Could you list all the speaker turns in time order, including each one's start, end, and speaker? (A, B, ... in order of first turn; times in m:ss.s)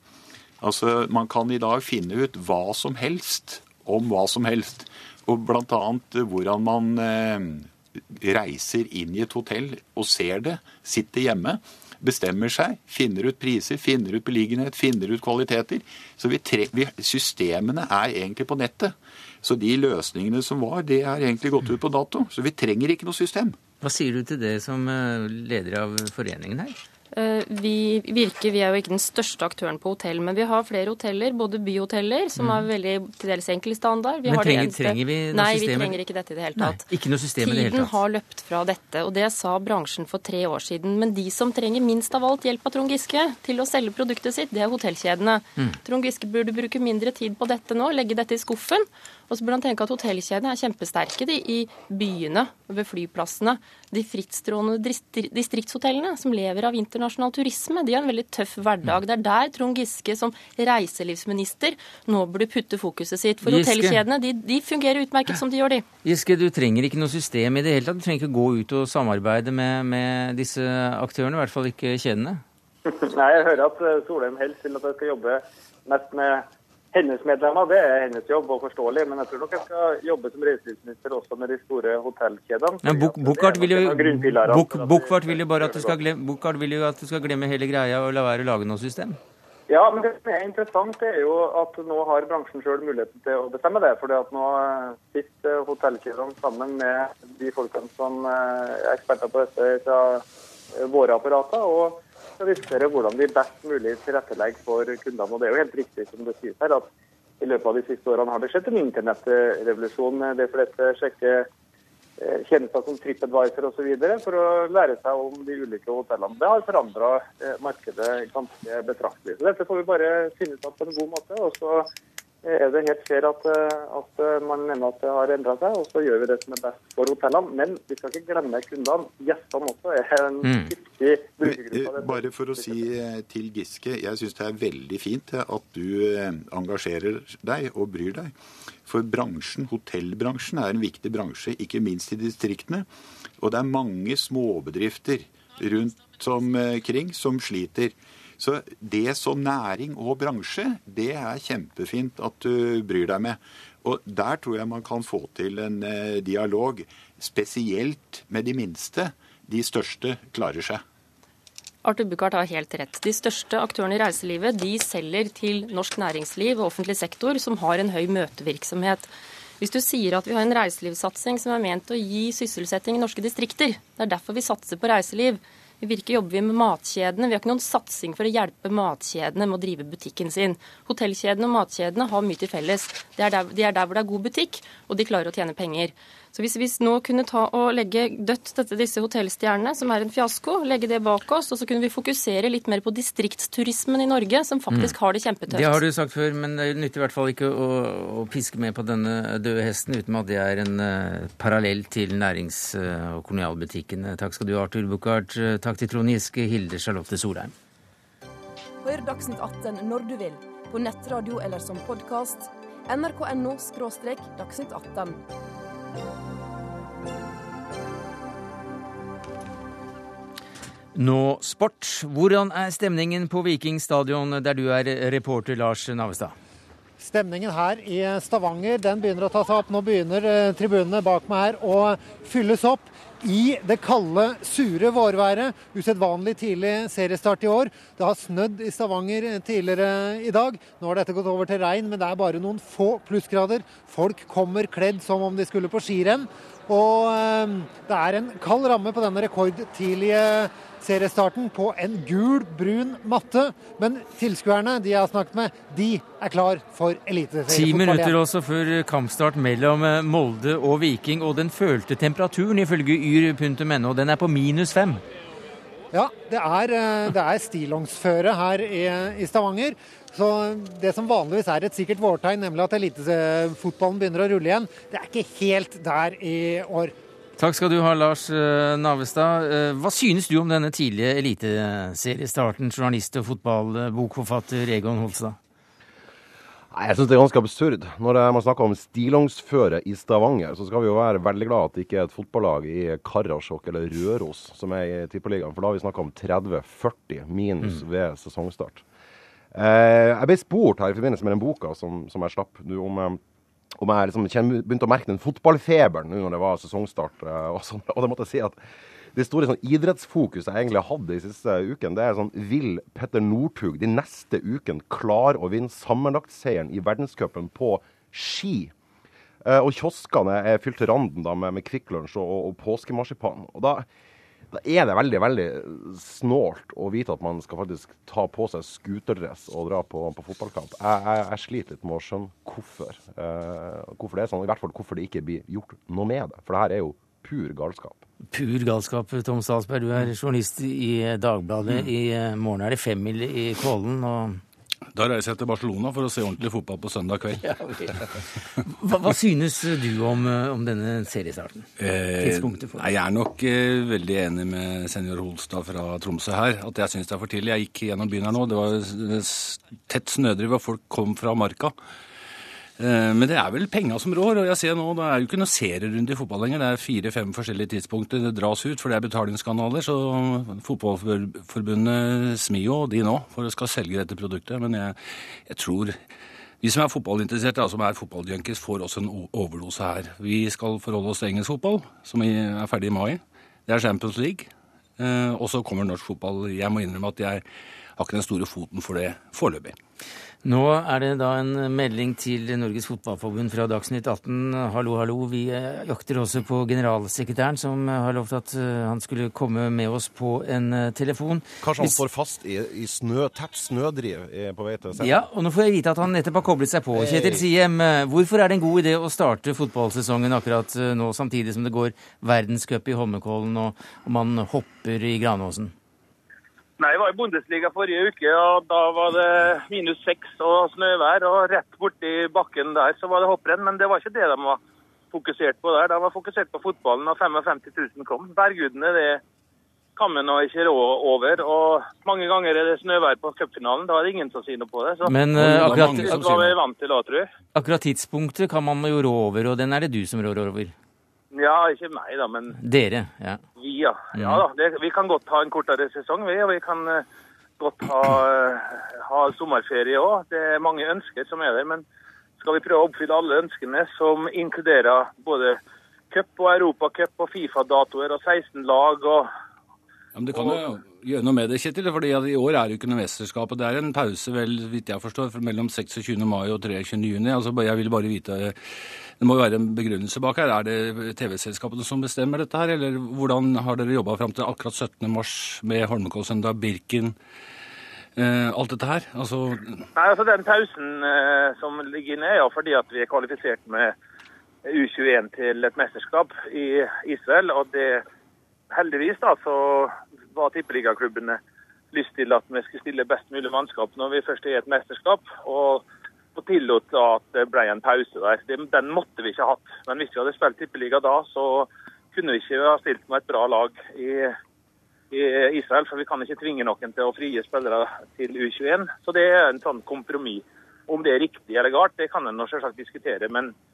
0:00.6-0:23.6 A
0:23.8-0:26.8 B
0:27.1-0:36.8 C
0:32.4-0:32.6 B
0:34.3-0:36.0 B
0:36.6-0:38.0 B
0:37.4-1:05.8 C
1:03.4-1:04.0 B
1:06.0-1:12.4 B
1:12.9-1:26.0 D
1:22.8-1:29.2 B
1:29.7-1:40.2 D
1:40.7-1:46.9 D
1:47.4-1:51.5 D
1:52.2-2:01.9 D
2:02.4-2:12.8 D
2:10.4-2:10.7 B
2:11.4-2:22.9 A
2:23.4-2:40.8 A
2:41.8-3:15.8 C
3:14.7-3:14.9 B
3:15.5-3:27.5 B
3:28.8-3:35.2 E
3:40.9-3:46.3 B
3:47.0-4:18.2 F
4:17.5-4:25.0 B
4:25.9-4:36.9 F
4:37.4-4:45.4 B
4:46.7-4:58.8 G
4:59.5-5:03.2 G
5:03.8-5:08.6 G
5:09.1-5:18.7 G
5:19.4-5:23.9 G
5:24.5-5:38.0 G
5:38.3-5:44.4 B
5:44.9-5:47.5 H
5:47.4-5:52.9 B
5:51.8-6:01.7 H
6:02.8-6:16.0 H
6:16.6-6:27.4 H
6:28.0-6:29.8 H
6:30.4-6:42.0 B
6:41.6-6:45.2 G
6:45.0-6:55.7 B
6:56.8-7:04.6 I
7:05.1-7:09.2 I
7:10.0-7:17.3 I
7:15.0-7:16.5 B
7:15.3-7:16.5 H
7:17.5-7:20.7 B
7:21.3-7:22.6 I
7:22.6-7:23.4 B
7:23.6-7:27.0 I
7:24.1-7:24.4 B
7:27.6-7:31.8 I
7:32.4-7:35.6 I
7:36.1-7:39.3 I
7:40.1-7:57.2 H
7:40.3-7:40.6 I
7:58.2-7:59.8 H
7:59.9-8:03.9 I
8:04.6-8:08.0 I
8:08.7-8:11.4 I
8:11.9-8:24.3 I
8:25.1-8:33.5 I